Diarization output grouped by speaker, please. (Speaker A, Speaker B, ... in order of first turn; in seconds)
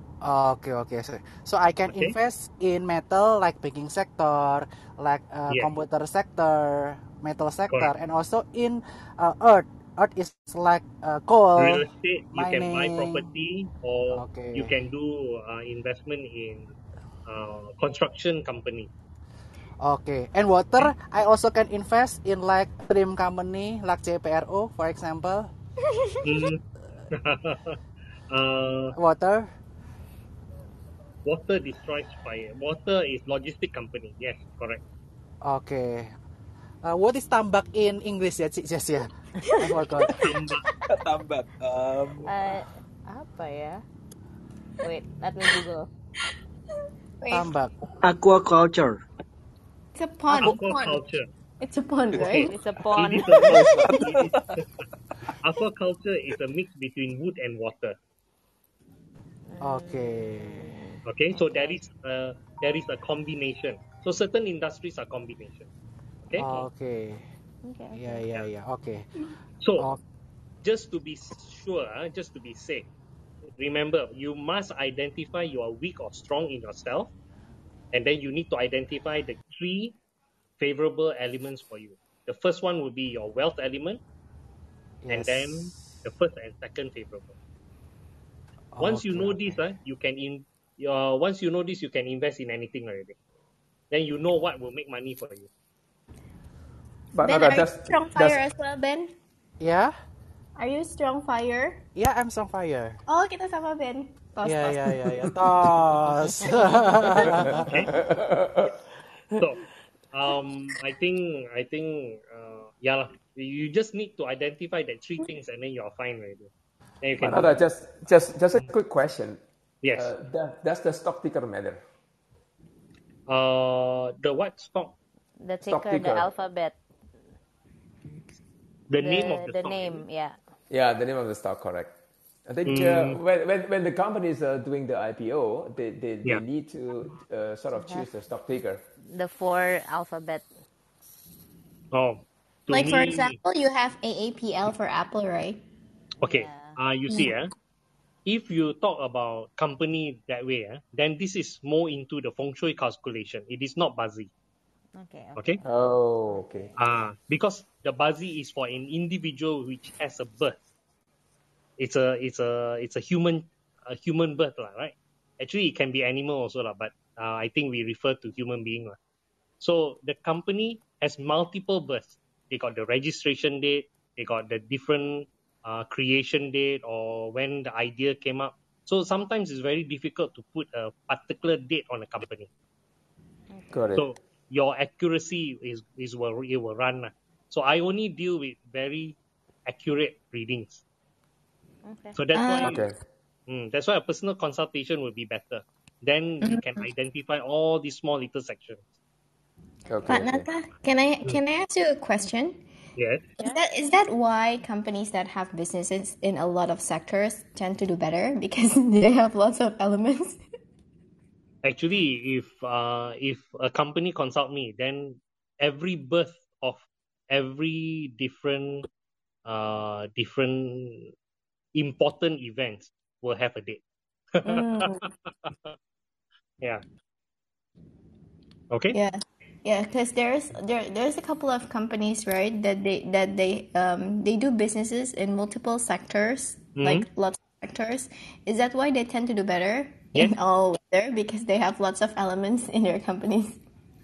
Speaker A: 0.2-13.3, 14.1-14.7, 19.8-25.5, 28.9-29.5, 35.5-36.1, 36.8-40.3, 47.3-47.7, 59.6-60.7, 66.3-67.2, 67.9-69.1, 85.0-85.8, 88.7-89.6, 99.6-100.0, 102.0-103.0, 104.4-107.6
Speaker B: 1.9-2.2, 5.5-5.8, 11.6-16.7, 17.3-18.9, 26.2-27.8, 28.3-29.0, 31.2-34.8, 40.1-40.7, 48.0-49.0, 50.3-51.3, 52.1-54.7, 55.4-58.0, 61.1-65.7, 66.2-66.7, 69.6-69.9, 70.6-72.9, 73.5-77.1, 77.9-80.0, 80.6-84.0, 85.1-87.4, 88.8-93.2, 93.9-95.5, 107.7-107.9, 109.4-116.5, 117.0-117.6, 119.8-120.1, 123.3-125.0, 128.9-130.0, 132.7-133.2, 141.9-143.4, 146.2-147.5, 148.3-154.3, 156.8-160.6, 161.8-169.0, 169.6-182.5, 183.9-190.8, 192.2-192.8, 193.5-198.9, 203.0-203.3, 211.6-218.9, 219.4-221.1, 221.8-223.8, 224.3-225.8, 228.7-229.0, 236.8-237.1
Speaker C: 39.4-40.1, 42.2-43.8, 44.8-45.9, 52.5-53.6, 59.5-61.9, 67.6-68.2, 125.4-126.8, 129.0-130.4, 137.7-138.1, 139.1-140.5, 146.2-146.8, 155.0-156.8, 183.5-183.8, 191.8-192.2
Speaker D: 40.9-42.4, 53.3-54.5
Speaker E: 47.2-47.5, 50.0-51.0, 51.6-52.5, 53.7-54.3, 97.2-99.1, 100.6-101.8, 103.1-105.3, 142.7-145.6, 192.3-192.8, 196.4-196.8, 200.1-202.6, 203.4-210.4, 224.4-225.1, 228.9-243.6
Speaker F: 97.1-98.4, 107.4-108.7, 117.2-119.4, 120.0-121.8, 125.7-126.3, 130.7-131.9, 132.5-138.8, 155.6-156.7, 183.7-184.1, 192.6-192.9, 199.9-200.5